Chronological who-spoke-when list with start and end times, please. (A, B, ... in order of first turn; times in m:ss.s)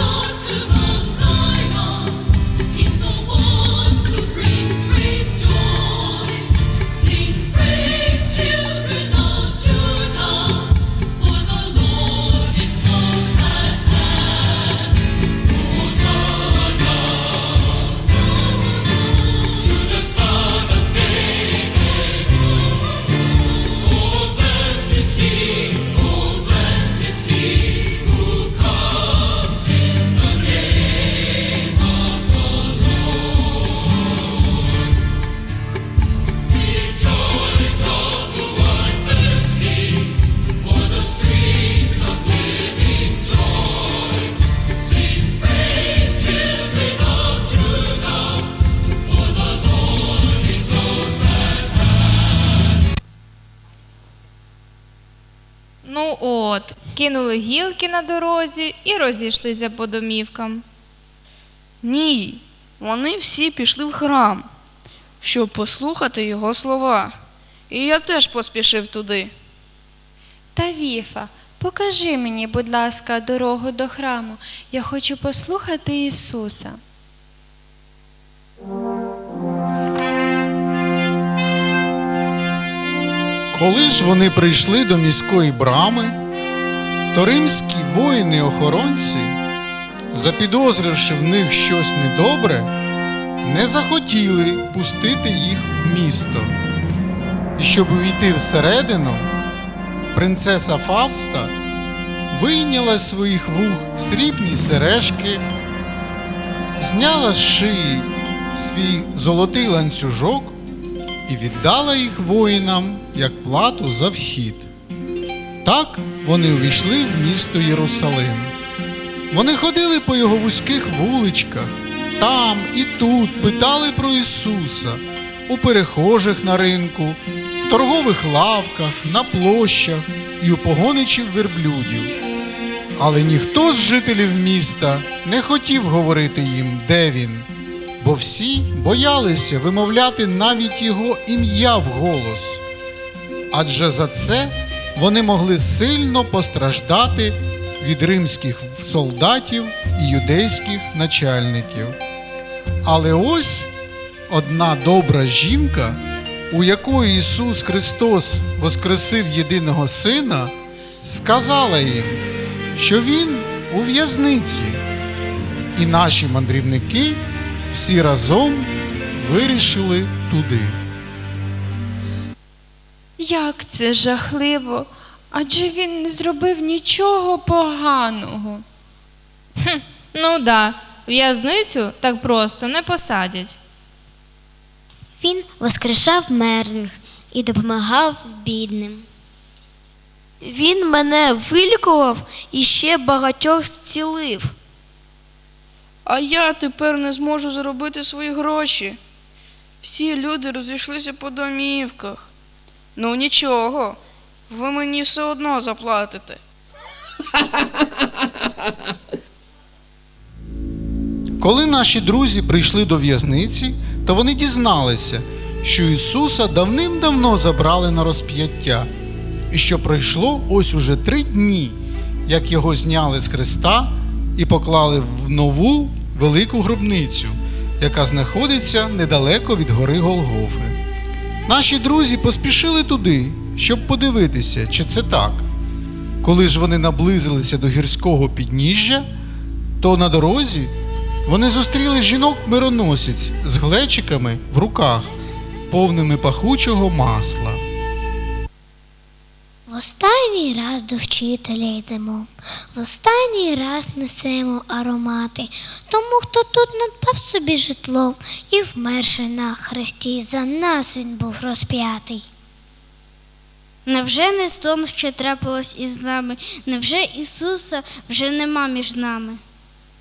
0:55.8-1:00.6 A
1:01.8-1:04.4 B
1:05.2-1:07.1 B
1:07.7-1:09.3 B
1:10.5-1:16.8 C
1:23.5-1:26.2 D
1:27.1-1:29.4 D
1:30.1-1:32.7 D
1:33.4-1:36.6 D
1:37.6-1:39.3 D
1:40.1-1:41.5 D
1:42.3-1:45.4 D
1:46.8-1:50.6 D
1:51.2-1:54.7 D
1:55.6-1:58.5 D
1:59.3-2:12.1 D
2:13.0-2:17.5 D
2:18.0-2:22.6 D
2:23.5-2:32.0 D
2:32.8-2:33.7 D
2:34.3-2:42.2 D
2:42.7-2:44.8 D
2:45.7-2:50.8 D
2:53.2-2:58.6 C
2:59.6-3:03.6 A
3:05.2-3:09.0 E
3:10.4-3:14.5 F
3:16.0-3:19.0 B
3:19.8-3:22.3 B
3:23.0-3:24.0 B
3:24.5-3:26.4 B
3:31.4-3:38.9 D
3:39.5-3:50.8 D
3:51.4-3:55.4 D
3:56.2-3:59.0 D
3:59.8-4:00.7 D
4:01.2-4:05.1 D
4:05.7-4:07.6 D
4:09.7-4:22.2 G
4:23.9-4:29.4 H